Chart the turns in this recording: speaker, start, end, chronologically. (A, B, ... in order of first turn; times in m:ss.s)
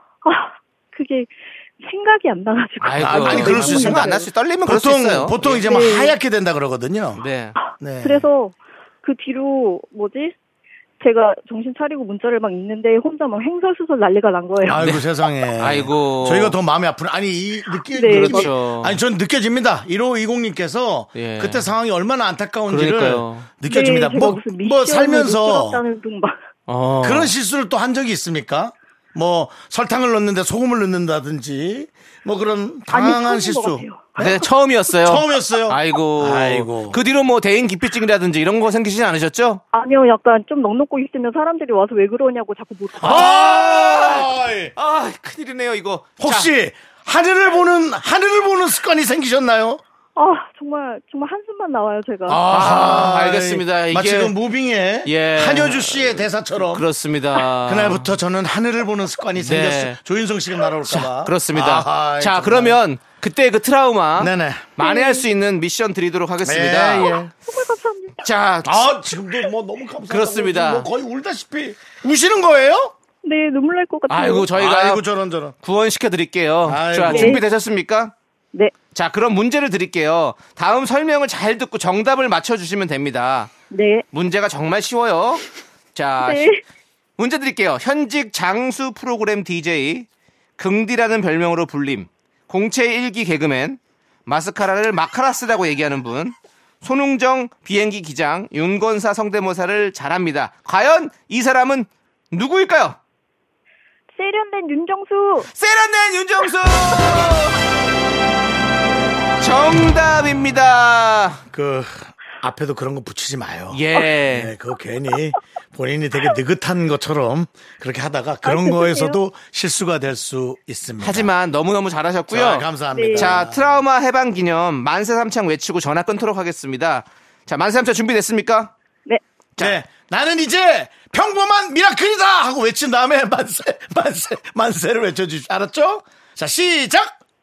0:00.2-0:04.3 A
0:02.8-0:05.6 B
0:03.0-0:07.2 C
0:05.6-0:06.1 A
0:07.2-0:07.6 B
0:07.6-0:10.3 A
0:07.8-0:08.2 C
0:11.0-0:14.8 A
0:14.6-0:25.8 C
0:14.8-0:15.0 B
0:15.6-0:16.6 B
0:17.9-0:18.5 A
0:18.1-0:19.0 B
0:21.2-0:21.7 B
0:22.7-0:23.5 B
0:23.7-0:26.3 A
0:26.7-0:27.3 B
0:27.0-0:37.0 C
0:32.9-0:34.3 A
0:34.2-0:39.6 B
0:39.7-0:43.3 A
0:43.0-0:44.7 C
0:43.0-0:46.5 B
0:46.2-0:49.8 C
0:50.2-0:52.4 A
0:52.3-0:54.3 B
0:52.3-0:56.8 C
0:55.0-0:58.1 B
0:57.6-1:02.8 C
0:59.4-1:00.0 B
1:00.8-1:07.2 B
1:04.2-1:04.8 C
1:04.8-1:05.2 A
1:06.4-1:07.3 C
1:07.5-1:08.2 A
1:08.2-1:08.9 B
1:08.6-1:12.9 C
1:10.1-1:10.9 B
1:13.2-1:14.5 A
1:14.1-1:15.0 B
1:14.5-1:15.6 C
1:15.6-1:18.1 B
1:16.6-1:17.4 C
1:17.1-1:17.4 A
1:18.9-1:23.5 B
1:23.7-1:24.0 A
1:24.1-1:25.4 B
1:25.9-1:26.6 B
1:26.2-1:26.6 A
1:27.2-1:30.1 B
1:30.6-1:43.0 B
1:44.1-1:45.5 A
1:45.5-1:47.6 B
1:49.4-1:51.4 B
1:51.5-2:01.3 C
1:53.7-1:54.5 B
1:58.4-1:59.2 A
2:01.0-2:08.7 B
2:02.3-2:03.6 C
2:02.9-2:03.3 A
2:09.6-2:17.2 C